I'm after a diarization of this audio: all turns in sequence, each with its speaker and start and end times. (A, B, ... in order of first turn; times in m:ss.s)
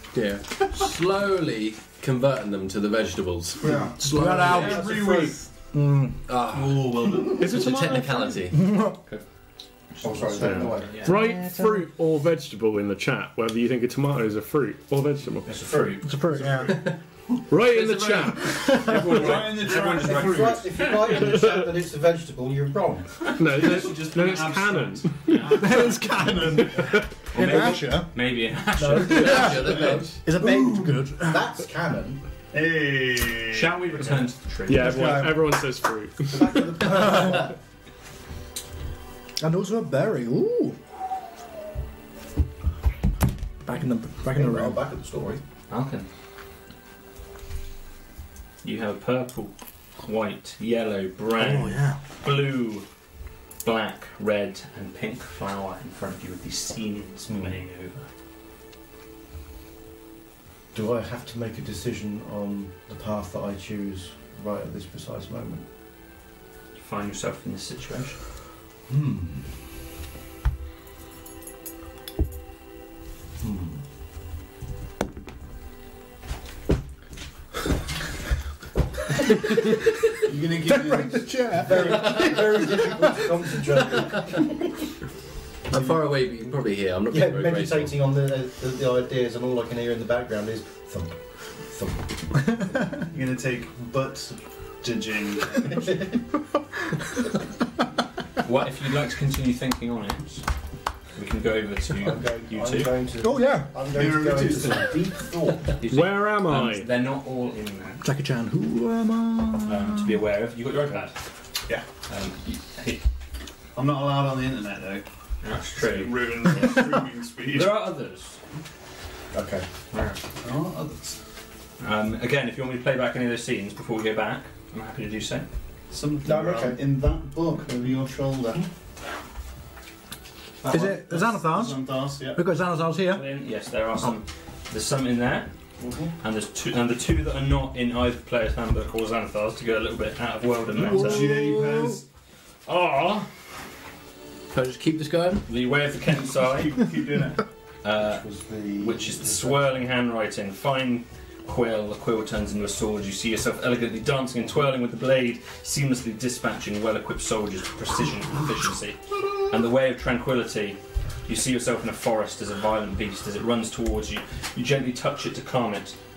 0:00.1-0:05.4 A
0:03.6-0:05.5 B
0:04.0-0:04.9 C
0:04.5-0:04.8 D
0:05.7-0:06.2 C
0:06.3-0:08.6 A
0:06.5-0:07.6 B
0:07.4-0:08.2 E
0:07.6-0:09.0 C
0:10.0-0:11.2 D
0:10.0-0:11.1 F
0:10.4-0:15.6 E
0:11.0-0:11.8 C
0:15.4-0:16.0 D
0:16.0-0:16.8 C
0:16.4-0:16.7 B
0:17.5-0:18.9 E
0:18.4-0:19.1 C
0:18.7-0:20.8 B
0:18.8-0:21.2 D
0:19.6-0:23.2 F
0:23.4-0:25.4 E
0:23.4-0:26.9 B
0:25.3-0:25.6 D
0:25.5-0:28.2 C
0:27.3-0:29.5 D
0:28.9-0:30.2 A
0:29.0-0:31.4 C
0:29.6-0:30.9 B
0:31.2-0:32.2 F
0:32.5-0:34.2 B
0:33.5-0:35.2 D
0:34.7-0:36.7 E
0:34.7-0:35.6 C
0:36.3-0:37.5 F
0:36.8-0:37.5 C
0:39.4-0:40.8 C
0:43.6-0:44.8 C
0:44.3-0:45.4 F
0:45.7-0:46.1 D
0:48.6-0:52.8 D
0:51.3-0:52.0 C
0:53.6-0:58.1 D
1:00.7-1:05.6 F
1:06.8-1:08.2 D
1:08.9-1:09.6 F
1:13.4-1:13.8 F
1:20.2-1:22.1 B
1:20.6-1:22.8 C
1:21.6-1:24.5 F
1:25.7-1:27.9 A
1:27.1-1:32.2 F
1:33.1-1:36.0 B
1:38.4-1:40.4 D
1:41.1-1:42.9 D
1:42.0-1:45.7 F
1:43.2-1:43.8 C
1:43.9-1:45.0 B
1:45.8-1:48.0 D
1:45.9-1:46.9 E
1:48.0-1:50.2 C
1:49.6-1:51.2 D
1:52.1-1:53.0 D
1:53.7-1:55.0 B
1:55.4-1:56.8 D
1:55.8-1:57.8 B
1:57.5-1:58.4 D
1:59.3-1:59.6 F
1:59.9-2:00.2 D
2:00.4-2:01.2 B
2:01.8-2:05.5 D
2:05.9-2:08.6 B
2:06.2-2:06.8 F
2:10.6-2:12.4 B
2:10.7-2:13.2 C
2:13.1-2:15.5 D
2:15.8-2:16.1 B
2:16.2-2:21.3 D
2:20.7-2:22.0 B
2:20.9-2:21.9 C
2:22.6-2:23.3 D
2:24.5-2:25.5 A
2:25.4-2:26.7 D
2:26.4-2:27.4 B
2:27.8-2:28.2 D
2:28.0-2:29.7 F
2:28.8-2:46.0 D